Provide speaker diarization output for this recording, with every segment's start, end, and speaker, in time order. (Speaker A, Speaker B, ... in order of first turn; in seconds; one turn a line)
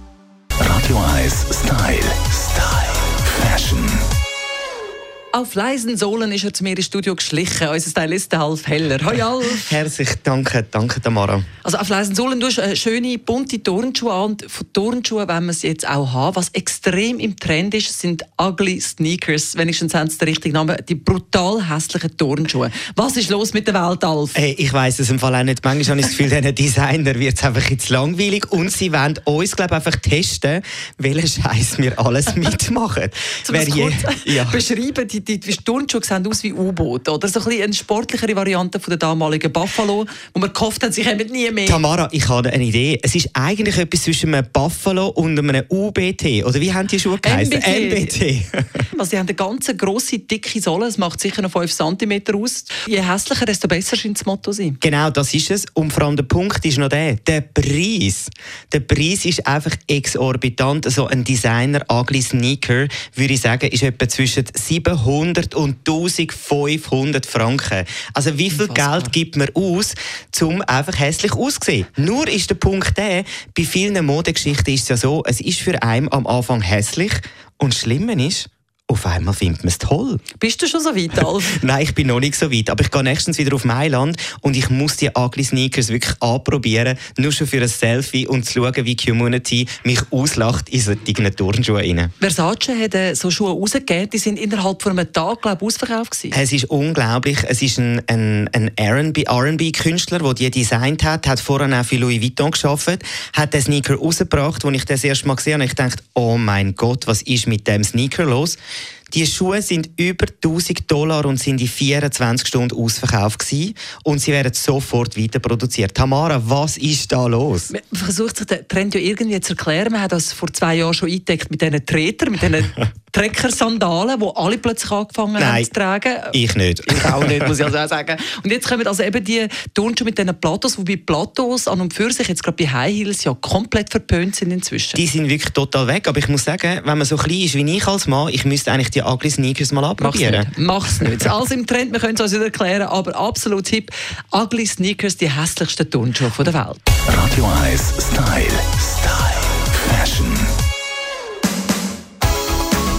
Speaker A: 0.6-4.0
Speaker B: 5.3-9.7
Speaker C: 9.6-11.5
Speaker B: 11.6-24.4
Speaker C: 24.3-34.6
Speaker B: 33.5-41.8
Speaker C: 41.6-48.6
Speaker B: 47.2-48.2
Speaker B: 48.9-54.8
Speaker C: 54.8-80.2
Speaker B: 68.5-69.1
Speaker B: 80.4-81.6
Speaker C: 81.2-92.1
Speaker B: 92.2-96.3
Speaker C: 96.3-108.6
Speaker C: 109.1-117.7
Speaker B: 117.7-135.0
Speaker C: 125.4-125.7
Speaker C: 126.3-127.5
Speaker C: 134.9-140.5
Speaker B: 140.0-146.9
Speaker A: 147.1-150.5